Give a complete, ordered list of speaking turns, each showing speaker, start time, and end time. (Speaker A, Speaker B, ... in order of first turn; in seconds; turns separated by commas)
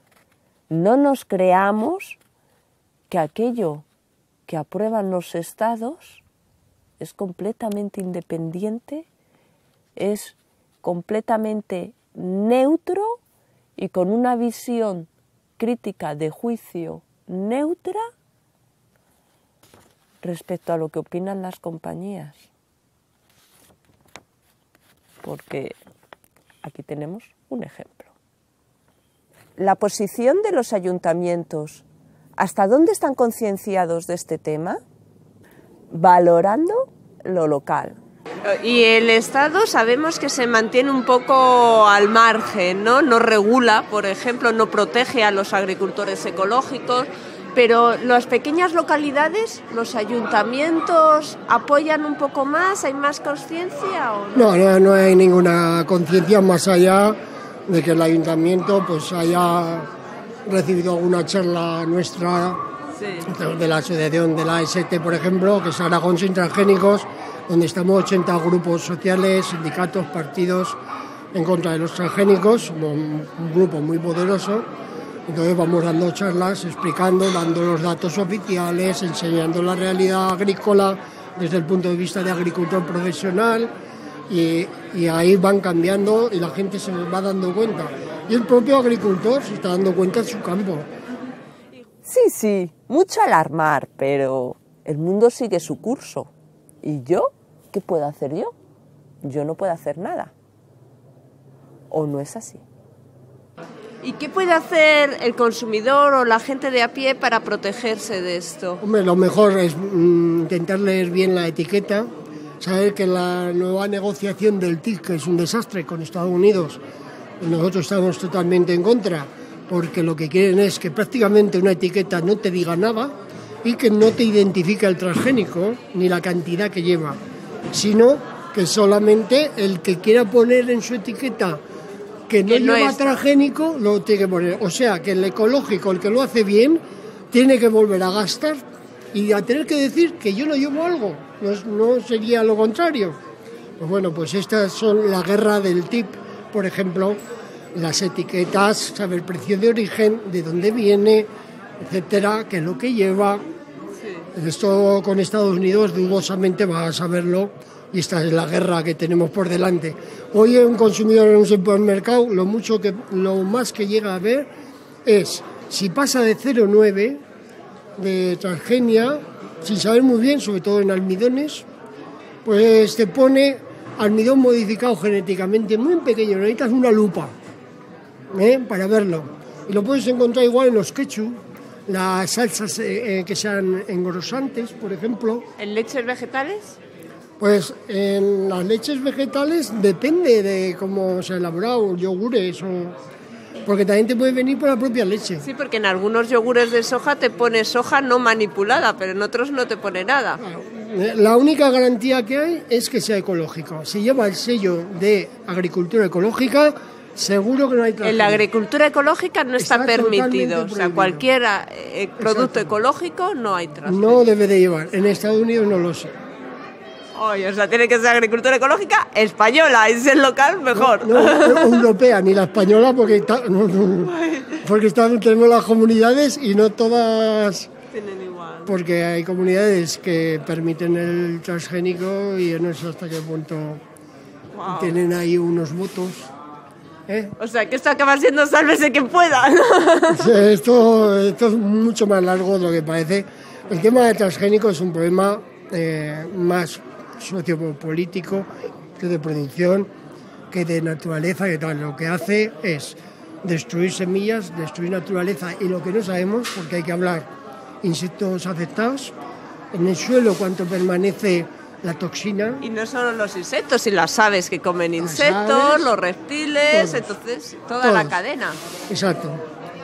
Speaker A: 0.7-2.2, Speaker A: 3.1-3.9, Speaker A: 4.5-6.2, Speaker A: 7.0-9.1, Speaker A: 9.9-13.2, Speaker A: 13.8-18.1, Speaker A: 20.2-22.5, Speaker A: 25.2-25.7, Speaker A: 26.6-28.1, Speaker A: 29.6-31.8, Speaker A: 32.4-34.8, Speaker A: 35.9-38.0, Speaker B: 38.4-54.5, Speaker C: 54.3-59.9, Speaker C: 60.5-62.6, Speaker B: 63.0-63.3, Speaker C: 63.2-70.8, Speaker C: 71.3-74.7, Speaker C: 75.3-83.7, Speaker C: 84.3-90.9, Speaker A: 92.0-96.3, Speaker A: 96.8-98.5, Speaker A: 99.2-100.3, Speaker A: 101.9-102.6, Speaker B: 104.0-108.8, Speaker C: 108.8-112.1, Speaker C: 112.6-116.8, Speaker C: 117.4-127.2, Speaker C: 127.7-131.6, Speaker C: 132.3-143.2, Speaker B: 132.4-133.2, Speaker C: 143.8-147.2, Speaker C: 147.7-151.3, Speaker C: 151.8-153.4, Speaker B: 154.0-154.3, Speaker C: 154.3-164.5, Speaker C: 165.0-167.2, Speaker C: 168.0-171.7, Speaker C: 172.4-177.3, Speaker C: 178.3-185.5, Speaker B: 185.6-186.8, Speaker C: 187.4-193.0, Speaker C: 193.6-195.4, Speaker B: 195.4-200.4, Speaker C: 200.4-208.4, Speaker B: 208.0-214.2, Speaker C: 209.6-211.2, Speaker C: 212.2-212.8, Speaker C: 213.8-216.2, Speaker B: 217.1-221.8, Speaker C: 220.7-227.7, Speaker B: 224.1-224.6, Speaker B: 227.9-228.7, Speaker C: 228.7-233.8, Speaker B: 234.5-235.0, Speaker C: 234.7-236.3, Speaker C: 237.1-237.3, Speaker B: 237.4-240.3, Speaker C: 240.1-249.9, Speaker C: 250.5-257.3, Speaker C: 257.8-259.1, Speaker C: 259.7-262.6, Speaker B: 262.6-268.6, Speaker C: 265.0-265.9, Speaker C: 266.7-267.1, Speaker C: 267.8-268.2, Speaker C: 268.9-269.4